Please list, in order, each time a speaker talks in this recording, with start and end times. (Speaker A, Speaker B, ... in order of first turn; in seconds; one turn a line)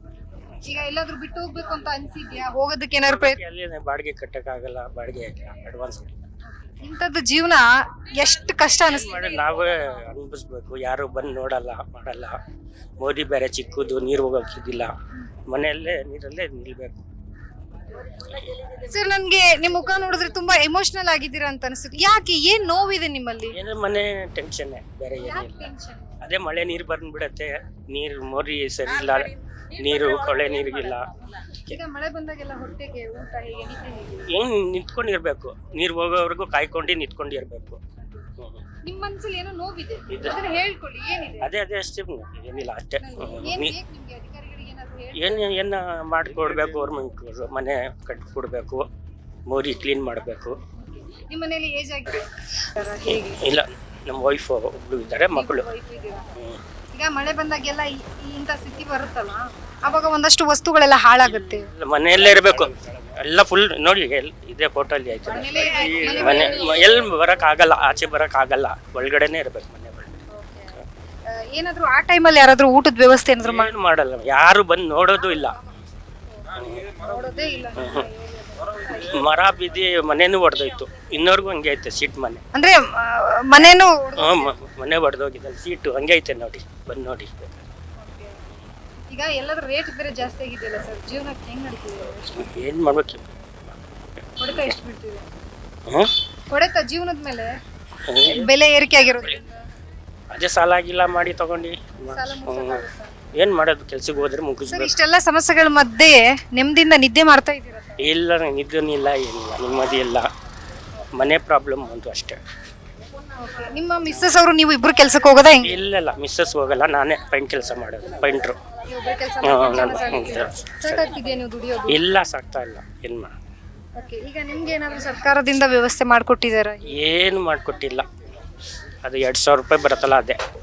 Speaker A: 0.6-3.4
Speaker B: 3.0-6.2
Speaker A: 6.5-9.2
Speaker B: 8.9-12.3
Speaker B: 13.0-14.9
Speaker B: 15.5-17.0
Speaker A: 18.8-23.6
Speaker B: 23.5-25.7
Speaker A: 25.2-26.2
Speaker B: 26.2-31.8
Speaker A: 31.7-34.3
Speaker B: 34.3-37.8
Speaker A: 38.8-41.5
Speaker B: 40.1-40.4
Speaker B: 41.4-43.7
Speaker A: 43.0-45.5
Speaker B: 45.1-48.8
Speaker B: 49.5-50.6
Speaker A: 50.9-53.4
Speaker B: 53.1-55.7
Speaker A: 55.3-56.4
Speaker A: 56.9-61.7
Speaker B: 61.2-70.2
Speaker A: 65.2-66.9
Speaker A: 70.3-70.8
Speaker A: 71.3-73.7
Speaker B: 73.4-75.6
Speaker B: 76.5-77.0
Speaker A: 77.0-79.2
Speaker B: 77.8-78.0
Speaker B: 78.9-82.4
Speaker A: 82.5-84.5
Speaker B: 84.2-87.7
Speaker A: 88.0-88.6
Speaker A: 89.1-92.5
Speaker B: 92.3-93.3
Speaker A: 94.4-95.3
Speaker A: 96.5-97.5
Speaker B: 98.0-98.4
Speaker A: 98.2-99.6
Speaker B: 100.3-102.8
Speaker A: 102.1-103.2
Speaker B: 103.3-104.9
Speaker A: 104.7-108.1
Speaker B: 108.0-110.2
Speaker B: 111.1-112.4
Speaker A: 113.3-115.8
Speaker B: 115.6-118.6
Speaker A: 118.9-122.0
Speaker B: 119.4-121.1
Speaker B: 121.9-123.3
Speaker A: 123.9-126.9
Speaker B: 126.9-128.1
Speaker B: 129.0-130.4